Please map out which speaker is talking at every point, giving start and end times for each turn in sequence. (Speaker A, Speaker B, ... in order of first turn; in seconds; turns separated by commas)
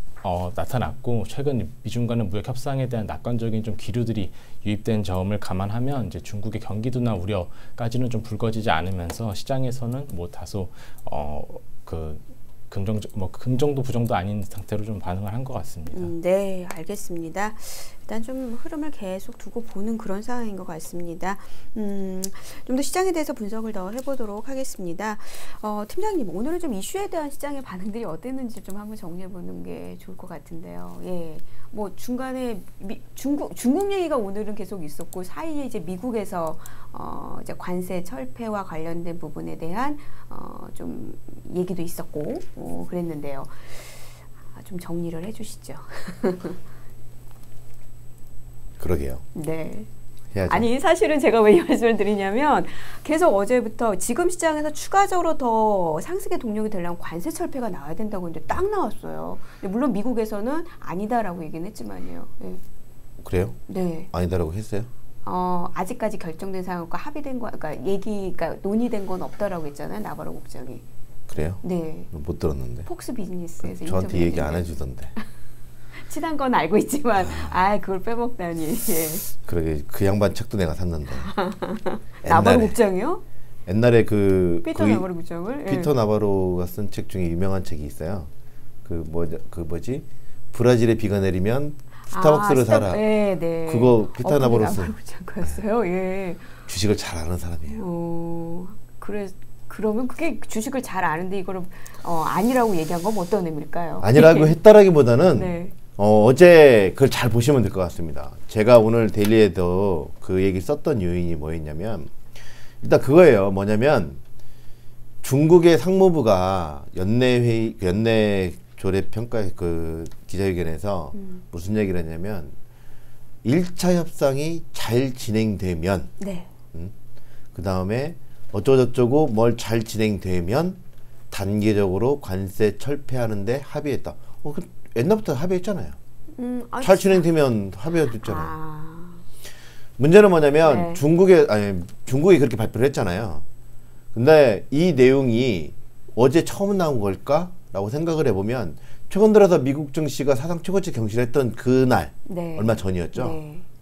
Speaker A: 0.2-16.1, Speaker B: 15.9-46.6, Speaker C: 48.8-49.2, Speaker B: 49.3-49.9, Speaker C: 50.3-50.7, Speaker B: 50.5-62.6, Speaker C: 63.2-63.6, Speaker B: 63.7-64.1, Speaker C: 64.1-64.9, Speaker B: 65.2-70.8, Speaker C: 71.3-71.6, Speaker B: 71.5-72.1, Speaker C: 72.1-72.9, Speaker B: 72.9-75.2, Speaker C: 73.6-75.1, Speaker B: 76.0-79.3, Speaker C: 77.2-77.6, Speaker C: 79.4-81.3, Speaker B: 81.1-83.2, Speaker C: 82.2-82.8, Speaker C: 83.7-85.1, Speaker B: 84.6-85.9, Speaker C: 85.6-88.3, Speaker C: 88.9-93.0, Speaker B: 92.1-96.5, Speaker C: 93.7-95.0, Speaker C: 96.7-97.8, Speaker B: 97.7-104.5, Speaker C: 104.0-112.1, Speaker B: 105.3-105.8, Speaker C: 112.8-114.2, Speaker C: 115.2-122.5, Speaker B: 121.1-121.4, Speaker C: 123.4-126.1, Speaker B: 126.2-126.5, Speaker C: 127.5-130.8, Speaker C: 131.3-136.0, Speaker B: 136.3-137.3, Speaker C: 136.8-138.5, Speaker B: 138.1-139.2, Speaker C: 140.0-143.4, Speaker B: 140.6-141.0, Speaker C: 144.1-153.4, Speaker B: 152.3-153.7